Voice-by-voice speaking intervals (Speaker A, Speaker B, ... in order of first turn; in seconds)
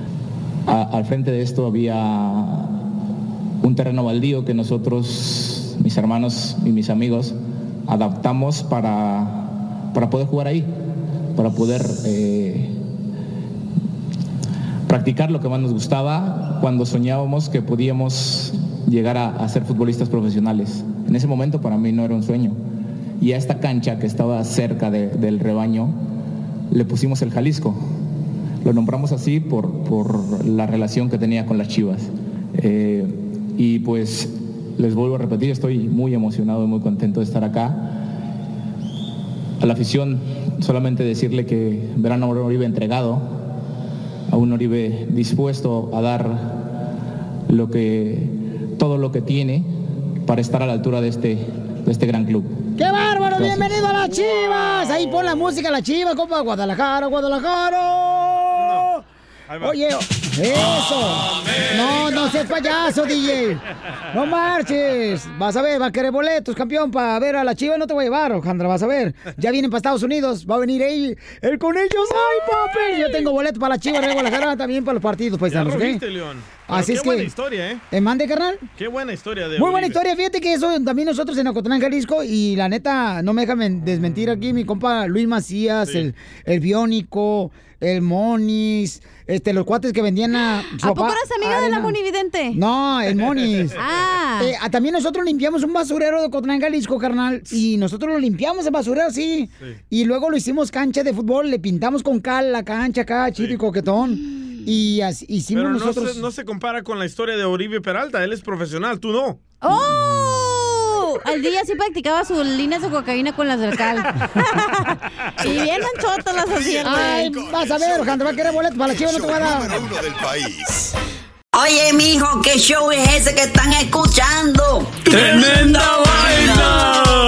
Speaker A: 0.7-2.8, 3.6-7.4, 7.9-10.7, 11.3-12.7, 14.9-22.6, 23.2-26.0, 26.7-27.8, 28.6-38.1, 39.6-43.4, 44.3-46.7, 47.5-49.7, 50.2-52.7, 53.4-53.7
Speaker B: 52.8-58.9, 59.6-76.0, 76.7-77.3, 77.9-78.7, 79.6-92.0, 92.5-93.8, 94.4-106.2, 116.8-119.8
Speaker C: 54.8-55.3, 58.6-59.0, 59.5-59.8, 61.5-62.3, 75.5-77.8, 78.8-80.0, 83.9-84.4, 93.2-93.8, 105.5-109.4, 115.4-115.7
Speaker D: 90.7-92.6, 93.8-94.5, 109.6-117.4
Speaker E: 116.5-120.9
Speaker F: 121.5-127.1